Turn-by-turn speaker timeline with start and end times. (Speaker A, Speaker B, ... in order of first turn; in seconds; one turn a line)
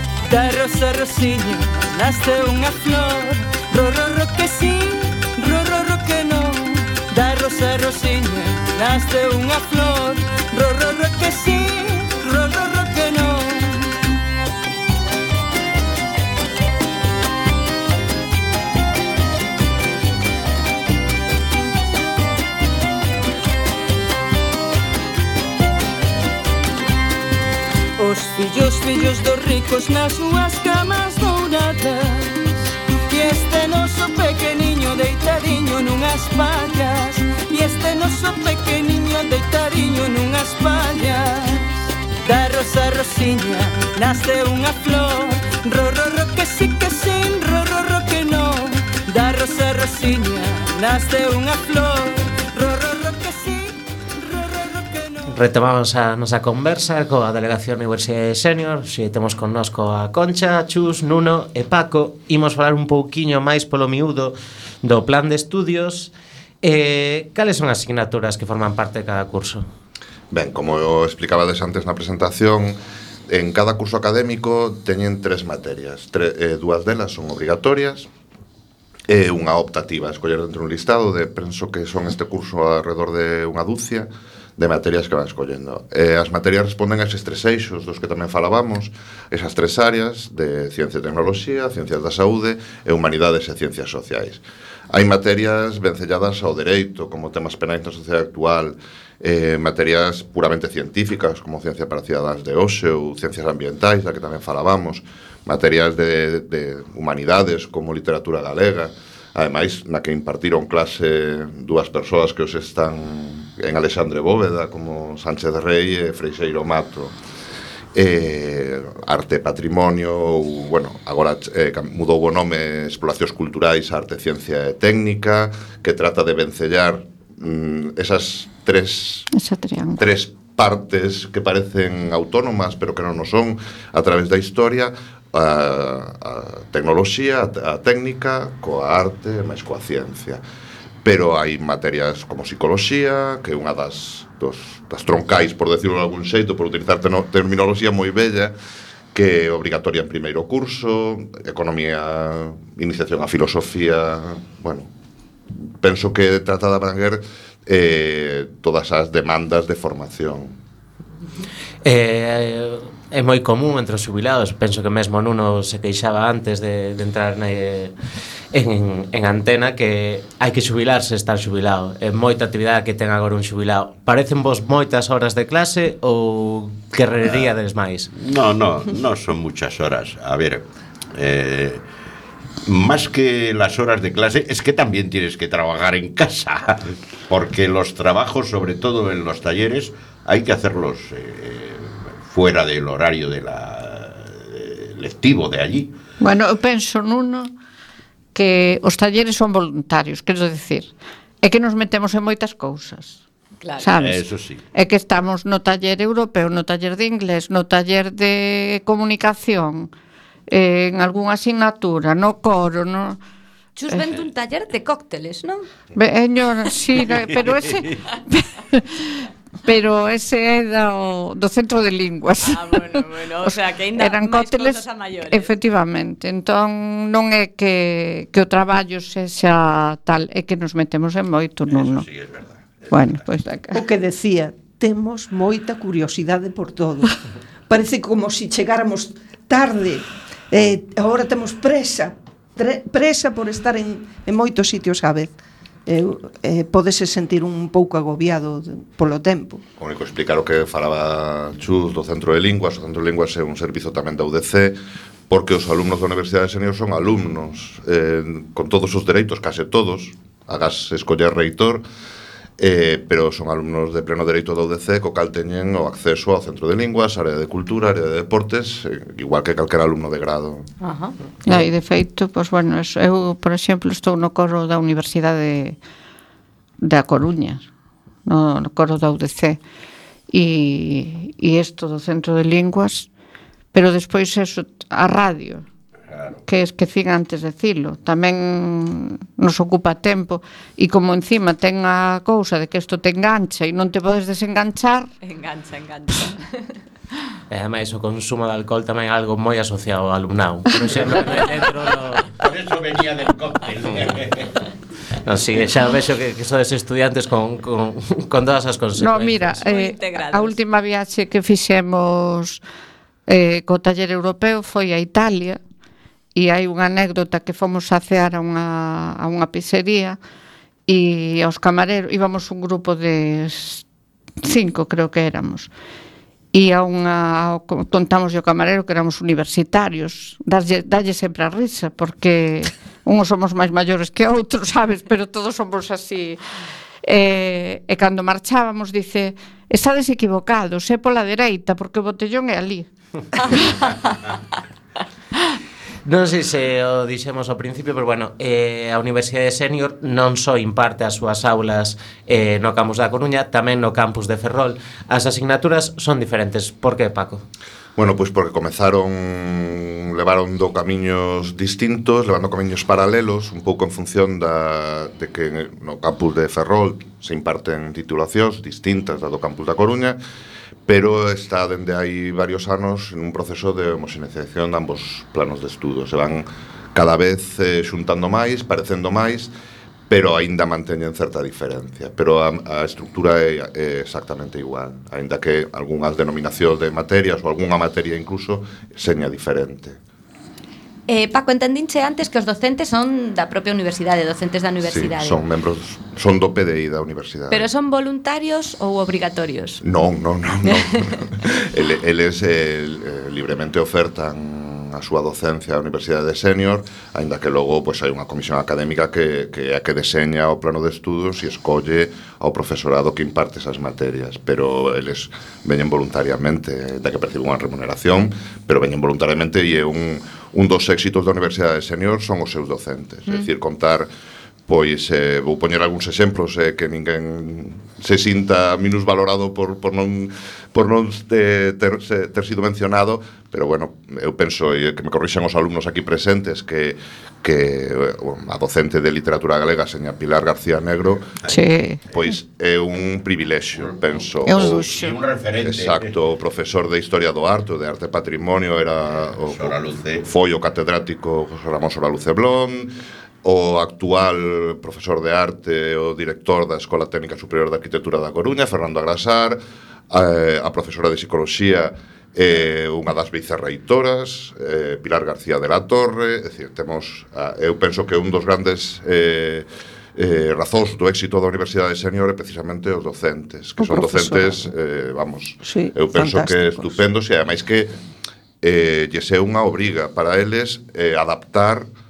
Speaker A: 0.3-14.0
Speaker A: 28.0-32.5
Speaker A: 33.1-41.7
Speaker A: 42.2-55.4
Speaker B: 55.3-66.1
Speaker B: 66.6-69.7
Speaker C: 70.3-72.8
Speaker C: 73.3-78.1
Speaker C: 79.1-117.2
Speaker C: 117.9-129.3
Speaker D: 129.3-130.0
Speaker C: 130.0-140.4
Speaker C: 141.0-148.5
Speaker C: 149.1-154.9
Speaker C: 155.8-160.6
Speaker B: 161.8-167.9
Speaker B: 168.5-178.1
Speaker E: 177.2-177.5
Speaker E: 178.1-181.8
Speaker E: 182.7-195.9
Speaker D: 196.2-197.5
Speaker D: 198.3-203.2
Speaker F: 203.6-203.9
Speaker D: 203.8-209.9
Speaker E: 204.0-204.6
Speaker D: 210.5-213.2
Speaker F: 213.8-215.7
Speaker D: 215.9-222.8
Speaker E: 217.2-218.0
Speaker F: 222.4-225.5
Speaker D: 223.4-232.1
Speaker E: 231.7-233.2
Speaker D: 232.9-233.8
Speaker G: 233.7-249.6
Speaker C: 249.8-254.8
Speaker C: 255.3-261.8
Speaker C: 262.6-270.7
Speaker F: 270.8-271.1
Speaker D: 271.5-275.8
Speaker D: 276.8-277.6
Speaker D: 278.3-279.6
Speaker D: 280.3-283.1
Speaker D: 283.7-285.7
Speaker D: 286.5-295.1
Speaker F: 295.2-296.8
Speaker B: 297.5-302.3
Speaker E: 302.4-304.6
Speaker B: 305.2-309.6
Speaker D: 309.0-312.6
Speaker F: 309.6-310.6
Speaker D: 313.3-315.6
Speaker D: 316.4-320.2
Speaker D: 320.9-323.8
Speaker D: 324.4-325.7
Speaker D: 326.5-336.4
Speaker D: 337.1-343.8
Speaker B: 346.1-357.4
Speaker C: 358.0-370.2
Speaker C: 370.9-379.5
Speaker C: 380.1-390.0
Speaker F: 391.1-395.4
Speaker C: 394.8-397.7
Speaker F: 397.5-399.8
Speaker C: 399.8-424.1
Speaker F: 400.7-401.0
Speaker C: 424.7-441.5
Speaker E: 441.4-442.3
Speaker D: 441.5-442.0
Speaker C: 442.1-445.0
Speaker E: 443.8-446.1
Speaker D: 444.5-445.2
Speaker C: 445.6-452.9
Speaker E: 449.4-450.3
Speaker C: 453.4-459.6
Speaker C: 460.1-477.9
Speaker G: 473.8-474.6
Speaker G: 475.6-476.9
Speaker C: 478.6-481.9